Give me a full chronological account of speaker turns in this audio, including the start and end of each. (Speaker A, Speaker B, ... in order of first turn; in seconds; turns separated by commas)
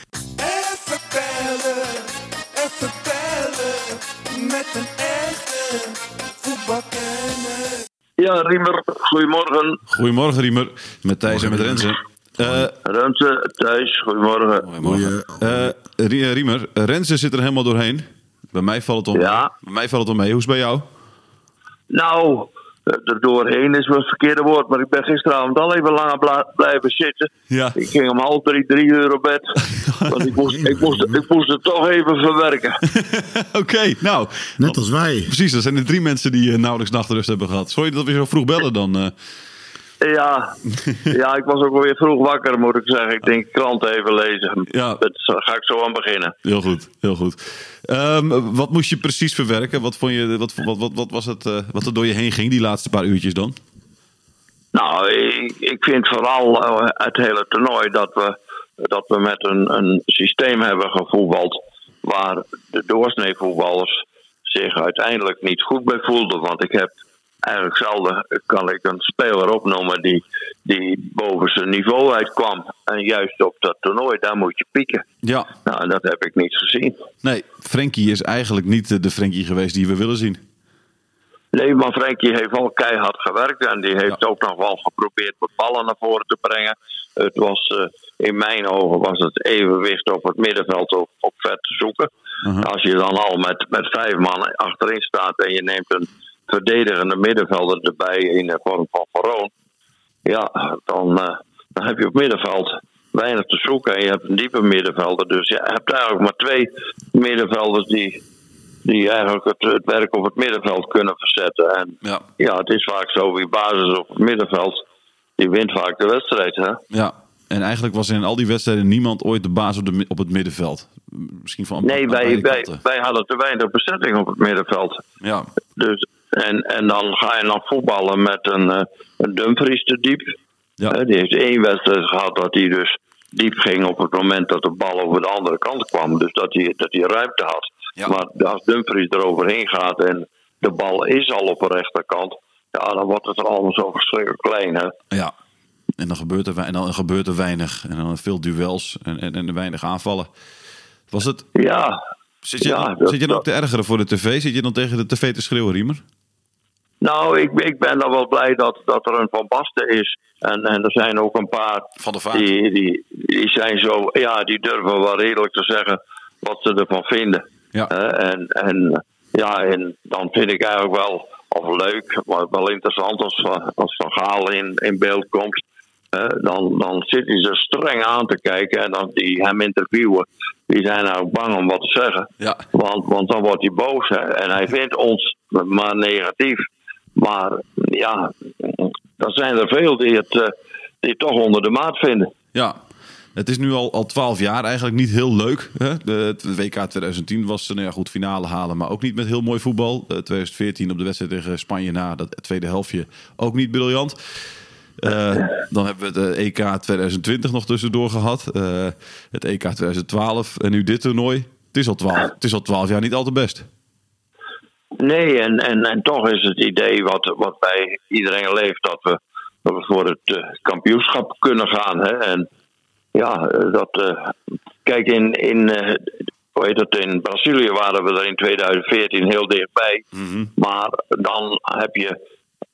Speaker A: 0.4-7.8, Speaker B: 8.2-9.8, Speaker C: 9.9-12.7, Speaker D: 11.3-12.7, Speaker B: 12.8-14.7, Speaker C: 14.6-20.9, Speaker D: 14.8-15.8, Speaker B: 19.1-19.5, Speaker B: 21.9-32.8, Speaker C: 27.5-27.8, Speaker C: 29.7-30.1, Speaker D: 30.4-31.2, Speaker C: 32.9-34.8, Speaker D: 34.6-35.3, Speaker C: 35.3-39.1, Speaker B: 40.0-46.4, Speaker C: 44.7-45.0, Speaker C: 46.4-53.6, Speaker B: 54.7-75.0, Speaker C: 75.2-75.5, Speaker B: 75.7-77.0, Speaker C: 77.2-80.4, Speaker B: 81.5-99.5, Speaker B: 100.2-108.2, Speaker B: 108.8-114.8, Speaker B: 115.4-116.8, Speaker C: 116.9-122.8, Speaker B: 121.8-125.0, Speaker C: 125.2-125.5, Speaker B: 125.8-130.4, Speaker B: 130.9-144.9, Speaker C: 146.0-150.3, Speaker C: 151.1-151.5, Speaker B: 151.6-152.0, Speaker C: 152.4-156.0, Speaker B: 152.6-153.4, Speaker B: 157.0-186.7, Speaker C: 162.0-162.4, Speaker B: 187.2-192.3, Speaker C: 193.4-204.2, Speaker C: 205.0-213.7, Speaker B: 215.0-222.5, Speaker B: 223.1-224.3, Speaker B: 224.8-230.1, Speaker C: 230.2-230.5, Speaker B: 230.6-232.2